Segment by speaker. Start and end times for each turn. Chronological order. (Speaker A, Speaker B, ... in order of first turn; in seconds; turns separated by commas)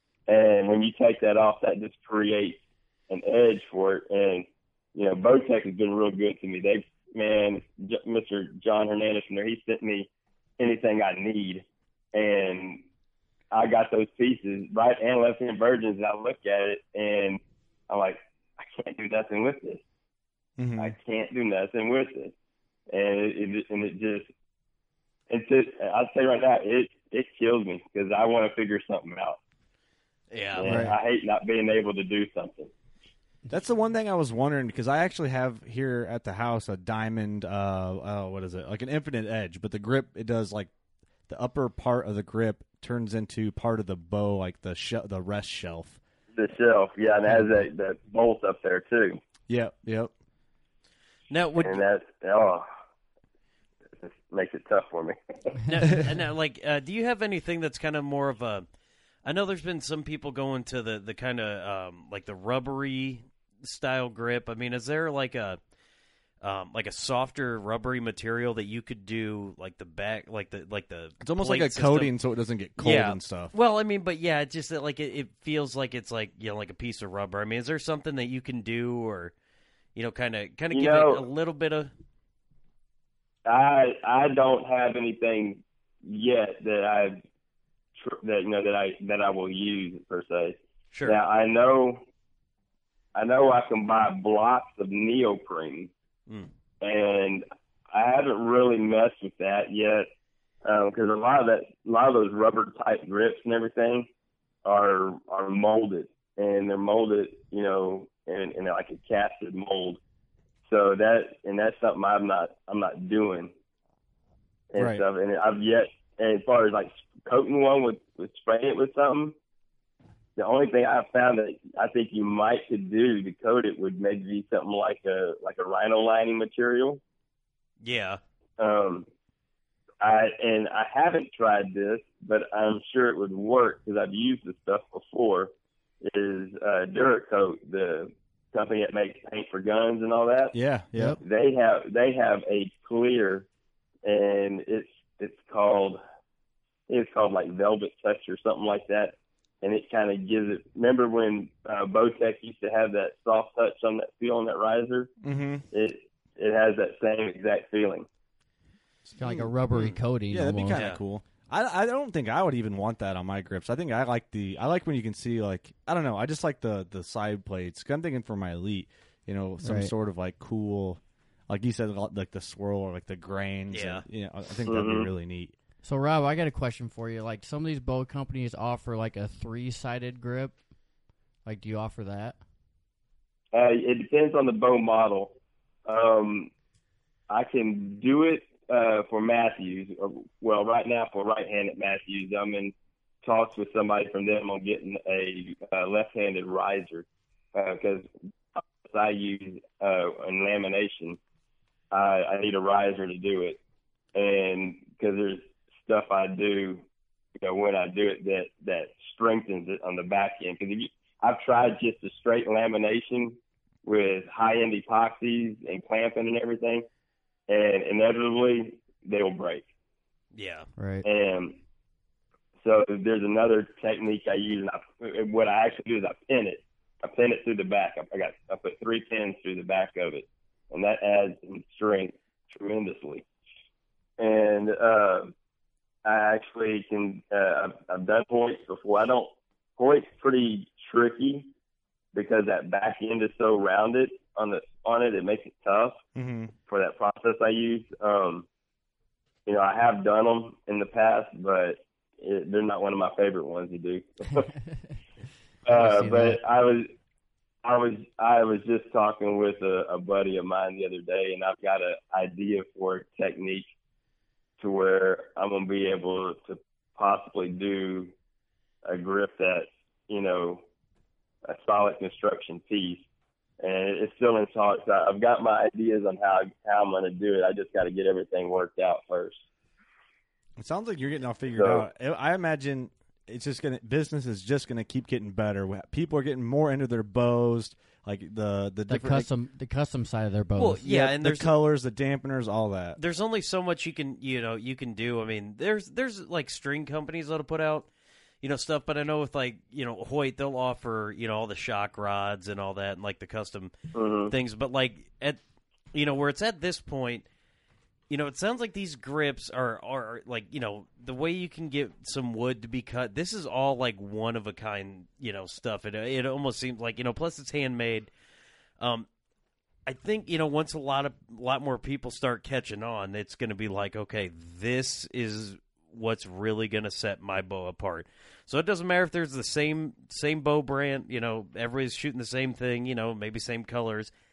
Speaker A: 0.3-12.8, Speaker A: 13.5-19.8, Speaker B: 20.6-20.9, Speaker A: 20.8-22.3, Speaker A: 22.9-24.3, Speaker A: 25.3-29.4, Speaker C: 30.3-30.8, Speaker A: 30.6-32.7, Speaker D: 30.6-30.9, Speaker B: 33.5-40.7, Speaker B: 41.3-46.0, Speaker A: 46.4-49.2, Speaker B: 49.5-50.1, Speaker C: 51.3-51.8, Speaker A: 51.6-52.7, Speaker A: 54.0-55.2, Speaker C: 55.7-58.6, Speaker C: 59.2-65.6, Speaker C: 66.4-72.1, Speaker B: 71.2-73.5, Speaker C: 72.8-79.3, Speaker C: 80.0-81.9, Speaker A: 80.7-81.2, Speaker A: 83.5-87.2, Speaker A: 88.0-92.0, Speaker C: 90.9-91.2, Speaker A: 93.2-95.9, Speaker A: 96.8-100.1, Speaker A: 100.7-104.1, Speaker A: 104.7-110.0, Speaker A: 110.7-113.5, Speaker A: 114.7-119.3, Speaker B: 114.8-115.0, Speaker A: 120.4-127.0, Speaker C: 127.8-128.2, Speaker A: 128.6-129.1, Speaker A: 130.0-135.5, Speaker A: 136.0-140.6, Speaker B: 140.5-141.2, Speaker A: 141.2-143.5, Speaker A: 144.1-146.0, Speaker A: 146.9-155.1, Speaker B: 155.2-155.7, Speaker A: 155.7-158.1, Speaker B: 159.1-159.5, Speaker D: 159.1-160.8, Speaker B: 160.3-175.5, Speaker C: 160.7-161.0, Speaker D: 169.6-169.9, Speaker C: 173.7-174.1, Speaker A: 174.7-175.1, Speaker D: 175.8-180.6, Speaker D: 181.4-182.4, Speaker A: 183.5-185.3, Speaker A: 185.9-186.5, Speaker A: 187.3-201.2, Speaker A: 201.9-203.6, Speaker A: 204.2-206.8, Speaker A: 207.4-216.9, Speaker A: 217.5-219.7, Speaker C: 220.3-220.7, Speaker D: 220.8-221.1, Speaker A: 221.0-221.6, Speaker A: 222.6-233.2, Speaker A: 234.2-235.3, Speaker A: 236.1-241.5, Speaker A: 242.1-246.0, Speaker B: 246.2-246.5, Speaker A: 246.7-248.5, Speaker A: 249.5-254.5, Speaker A: 255.7-256.9, Speaker D: 255.7-256.4, Speaker A: 257.6-263.7, Speaker A: 264.6-268.1, Speaker A: 268.9-270.6, Speaker A: 271.4-273.1, Speaker A: 273.6-279.4, Speaker B: 280.6-289.3, Speaker A: 281.5-281.9, Speaker D: 288.9-290.8, Speaker C: 290.6-291.5, Speaker B: 290.8-293.0, Speaker C: 293.0-297.9, Speaker C: 298.4-303.7, Speaker A: 303.9-304.3, Speaker C: 304.3-305.4, Speaker C: 305.9-307.2, Speaker C: 308.1-318.1, Speaker C: 318.8-319.1, Speaker C: 319.9-334.1